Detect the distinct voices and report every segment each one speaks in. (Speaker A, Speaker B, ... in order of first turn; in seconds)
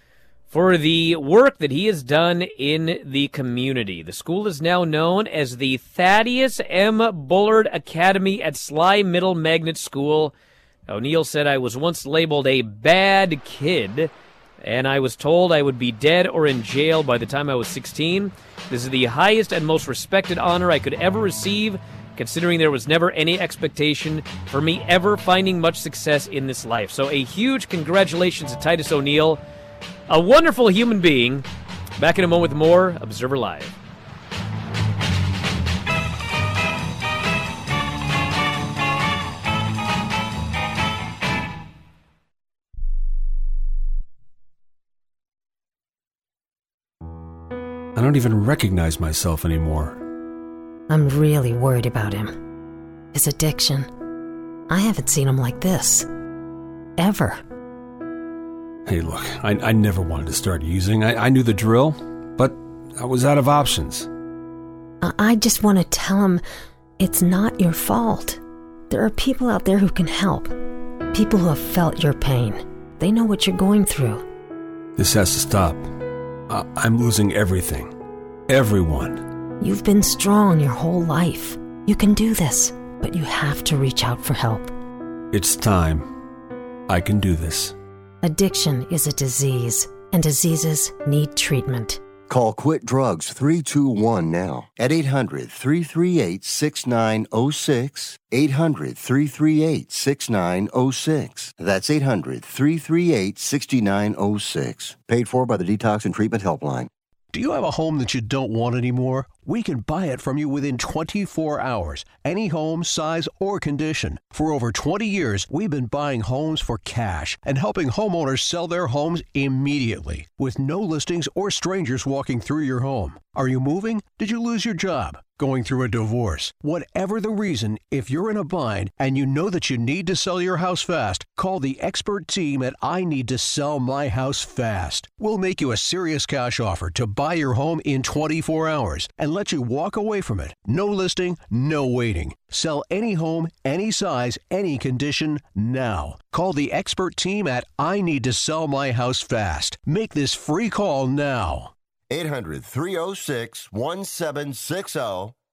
Speaker A: 0.5-10.3, 10.9-29.4, 30.1-31.4, 32.0-33.8
Speaker B: 47.9-50.0, 58.9-64.1, 75.0-76.0, 76.5-77.9, 78.5-79.3, 85.3-86.1, 86.9-87.8
Speaker C: 50.9-52.4, 53.1-53.9, 54.7-56.1, 57.0-57.4, 65.0-66.4, 67.0-70.6, 71.1-74.2, 79.6-84.7, 88.2-92.0
Speaker D: 92.3-106.9, 152.1-155.3
Speaker E: 107.3-151.7